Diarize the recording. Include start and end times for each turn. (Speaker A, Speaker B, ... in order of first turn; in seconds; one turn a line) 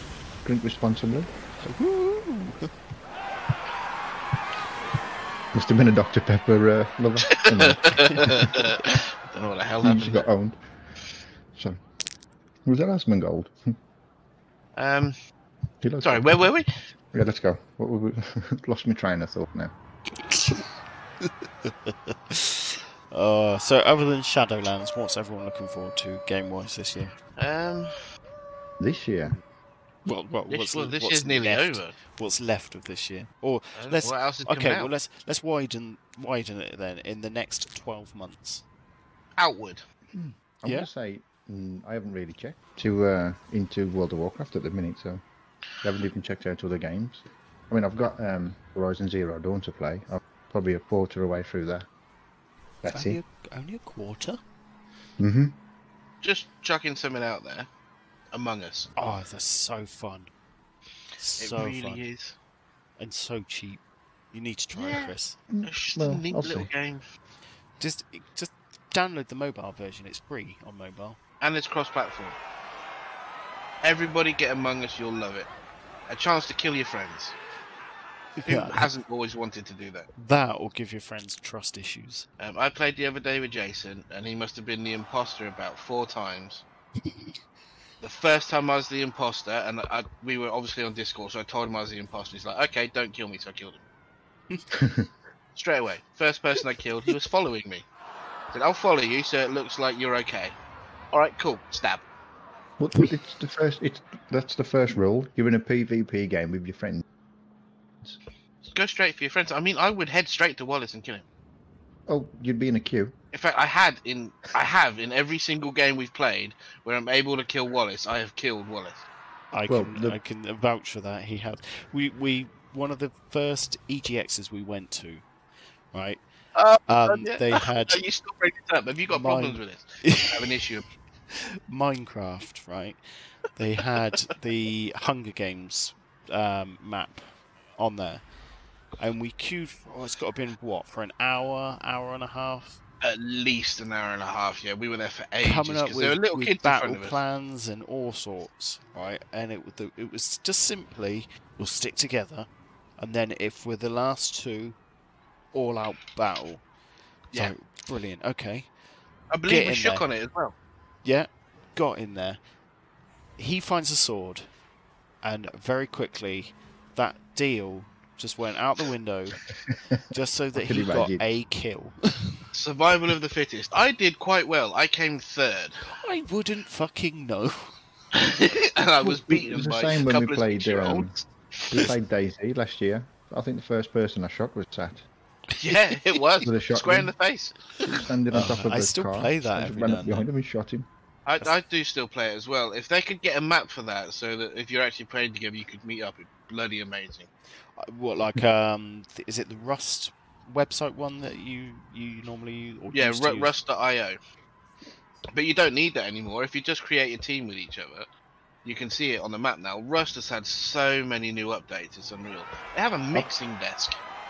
Speaker A: 0.4-1.3
Speaker B: 1.6-2.7
Speaker A: 5.5-8.5
Speaker C: 7.3-10.2
Speaker A: 9.8-10.6
Speaker A: 11.5-11.8
Speaker A: 12.6-13.7
Speaker C: 14.8-15.1
Speaker A: 15.8-16.4
Speaker C: 16.0-16.7
Speaker A: 17.1-19.7
Speaker B: 20.2-20.6
Speaker B: 21.2-27.1
Speaker C: 27.4-27.9
Speaker A: 28.8-29.4
Speaker B: 30.0-38.6
Speaker C: 30.5-31.9
Speaker C: 33.8-34.9
Speaker C: 39.4-39.8
Speaker A: 40.1-45.2
Speaker A: 45.8-51.9
Speaker A: 52.8-53.2
Speaker B: 52.9-54.4
Speaker A: 55.2-55.6
Speaker C: 56.2-57.7
Speaker C: 58.3-58.9
Speaker B: 59.0-60.3
Speaker B: 61.2-62.0
Speaker C: 61.4-62.4
Speaker B: 63.0-65.4
Speaker C: 64.7-65.1
Speaker A: 65.5-66.7
Speaker C: 65.6-67.0
Speaker B: 67.8-71.2
Speaker C: 71.4-72.4
Speaker C: 73.8-75.5
Speaker C: 76.1-77.4
Speaker B: 78.4-78.9
Speaker C: 78.5-80.1
Speaker B: 80.2-82.2
Speaker C: 82.4-86.6
Speaker C: 88.0-93.8
Speaker A: 94.7-95.1
Speaker C: 95.5-97.8
Speaker C: 98.5-100.5
Speaker C: 101.1-102.0
Speaker A: 102.8-107.0
Speaker C: 108.6-111.2
Speaker A: 112.1-113.1
Speaker C: 113.3-119.0
Speaker B: 119.5-125.2
Speaker A: 119.7-120.2
Speaker B: 125.9-126.2
Speaker C: 126.5-130.8
Speaker B: 126.9-128.0
Speaker B: 129.1-130.4
Speaker B: 131.3-133.0
Speaker B: 133.5-138.2
Speaker B: 139.0-142.8
Speaker C: 143.0-147.2
Speaker B: 145.4-154.8
Speaker B: 155.5-156.6
Speaker B: 157.3-158.7
Speaker C: 159.3-160.5
Speaker B: 159.5-160.0
Speaker B: 161.0-162.4
Speaker B: 163.4-164.5
Speaker B: 165.2-169.4
Speaker B: 170.1-172.4
Speaker A: 170.5-171.2
Speaker C: 172.5-175.8
Speaker B: 175.9-177.7
Speaker C: 178.1-181.2
Speaker A: 179.0-181.1
Speaker A: 181.7-185.1
Speaker C: 185.6-187.5
Speaker B: 185.7-186.2
Speaker A: 186.4-187.1
Speaker A: 187.8-190.9
Speaker B: 188.3-190.3
Speaker C: 191.2-197.3
Speaker B: 197.8-203.5
Speaker C: 202.9-204.2
Speaker C: 205.3-208.1
Speaker C: 208.6-214.0